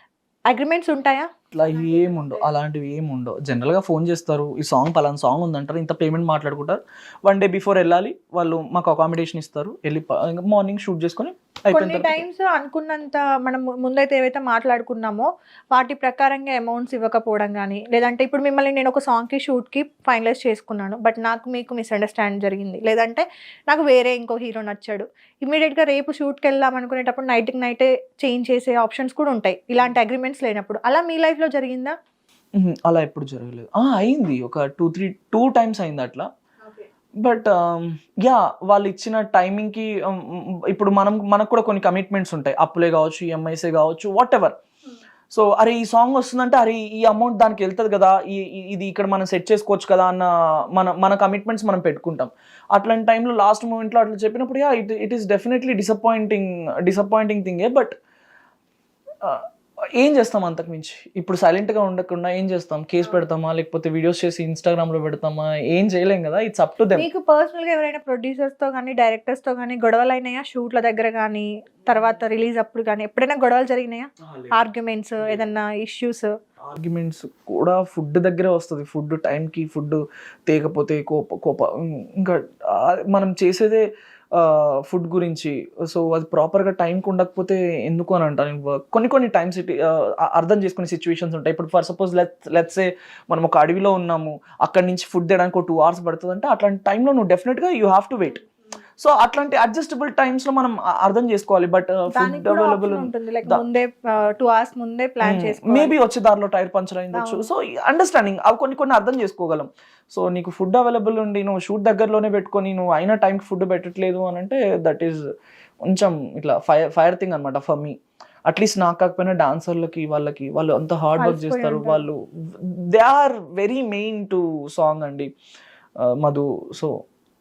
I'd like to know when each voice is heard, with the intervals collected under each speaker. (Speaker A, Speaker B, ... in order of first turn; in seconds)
Speaker A: 0.5-2.5, 11.7-31.9, 67.0-76.3, 102.2-105.9, 107.1-107.5, 121.2-122.0
Speaker B: 1.5-12.2, 32.6-36.3, 37.2-44.5, 45.3-57.9, 60.0-67.1, 74.2-74.5, 76.7-83.8, 84.3-98.4, 99.0-103.6, 105.2-115.2, 115.9-118.0, 118.5-125.3, 126.0-126.9